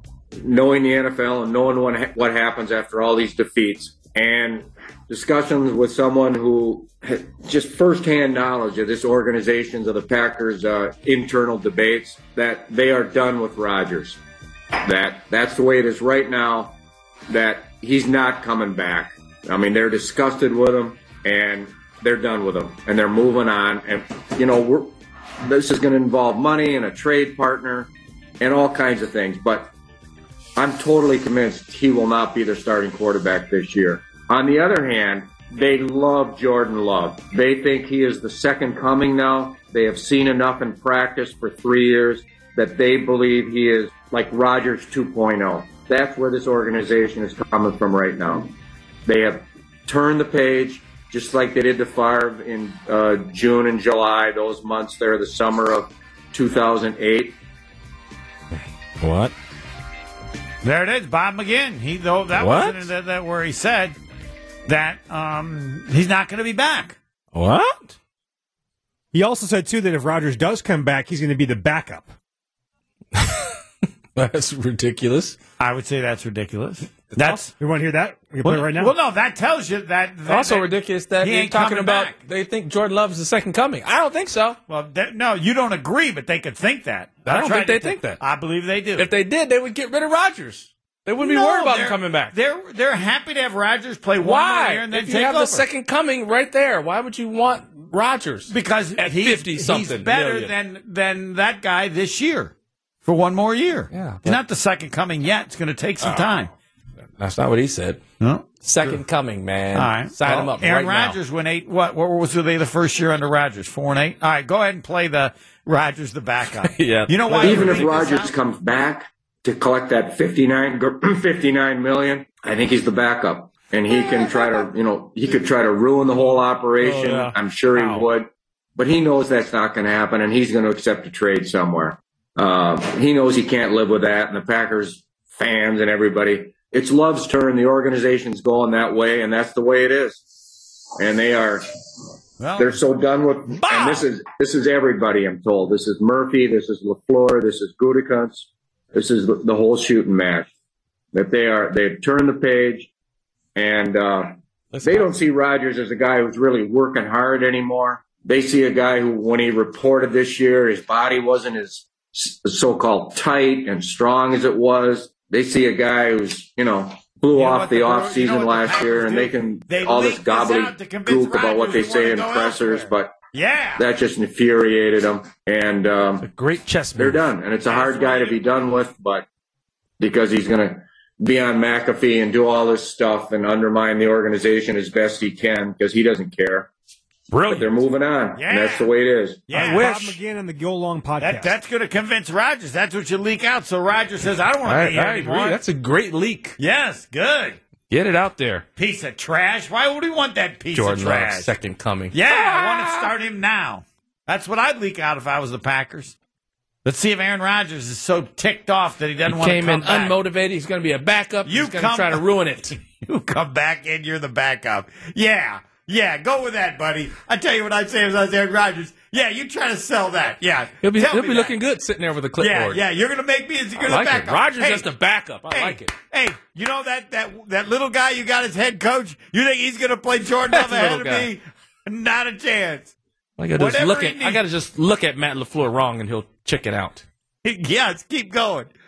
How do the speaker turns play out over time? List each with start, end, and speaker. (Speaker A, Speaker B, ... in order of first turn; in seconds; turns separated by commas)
Speaker A: 0.4-14.2, Speaker A: 14.8-16.8, Speaker A: 17.3-24.9, Speaker A: 25.4-29.7, Speaker A: 30.6-57.4, Speaker B: 59.0-59.3, Speaker C: 60.6-64.0, Speaker B: 62.3-62.8, Speaker C: 64.7-67.0, Speaker B: 67.3-67.9, Speaker D: 69.1-72.1, Speaker B: 73.1-73.5, Speaker B: 74.1-75.3, Speaker C: 75.6-77.5, Speaker B: 77.1-77.4, Speaker D: 77.6-78.9, Speaker C: 78.4-82.2, Speaker B: 80.3-84.6, Speaker C: 84.7-89.1, Speaker B: 87.2-88.2, Speaker B: 88.9-92.3, Speaker C: 91.2-95.7, Speaker B: 94.2-100.5, Speaker C: 98.5-102.5, Speaker C: 103.0-106.5, Speaker B: 103.9-104.3, Speaker B: 106.0-106.4, Speaker B: 107.2-108.0, Speaker C: 108.2-109.0, Speaker B: 108.6-111.2, Speaker C: 109.7-118.3, Speaker B: 116.5-117.9, Speaker A: 117.3-140.2, Speaker C: 126.8-127.3, Speaker A: 141.0-141.6, Speaker C: 142.4-142.8, Speaker A: 142.6-150.5, Speaker C: 143.5-144.1, Speaker A: 151.1-152.9, Speaker A: 153.5-173.2, Speaker B: 154.7-155.1, Speaker C: 167.3-173.8, Speaker A: 173.8-176.3, Speaker B: 176.2-177.2, Speaker A: 176.9-179.3, Speaker C: 177.6-178.4, Speaker A: 180.0-186.7, Speaker B: 187.3-187.7, Speaker A: 187.4-189.7, Speaker C: 188.3-188.9, Speaker C: 189.5-190.1, Speaker D: 189.5-191.5, Speaker C: 191.2-195.6, Speaker B: 194.6-196.6, Speaker C: 196.6-197.6, Speaker B: 197.9-198.7, Speaker C: 198.8-201.5, Speaker B: 200.7-203.0, Speaker C: 202.1-206.1, Speaker C: 206.8-210.2, Speaker B: 209.2-212.8, Speaker C: 211.4-212.2, Speaker C: 212.9-221.6, Speaker B: 220.8-222.8, Speaker C: 222.4-224.9, Speaker B: 223.8-225.9, Speaker C: 225.5-232.9, Speaker B: 230.5-231.3, Speaker B: 233.4-237.0, Speaker C: 233.5-234.4, Speaker C: 237.4-238.7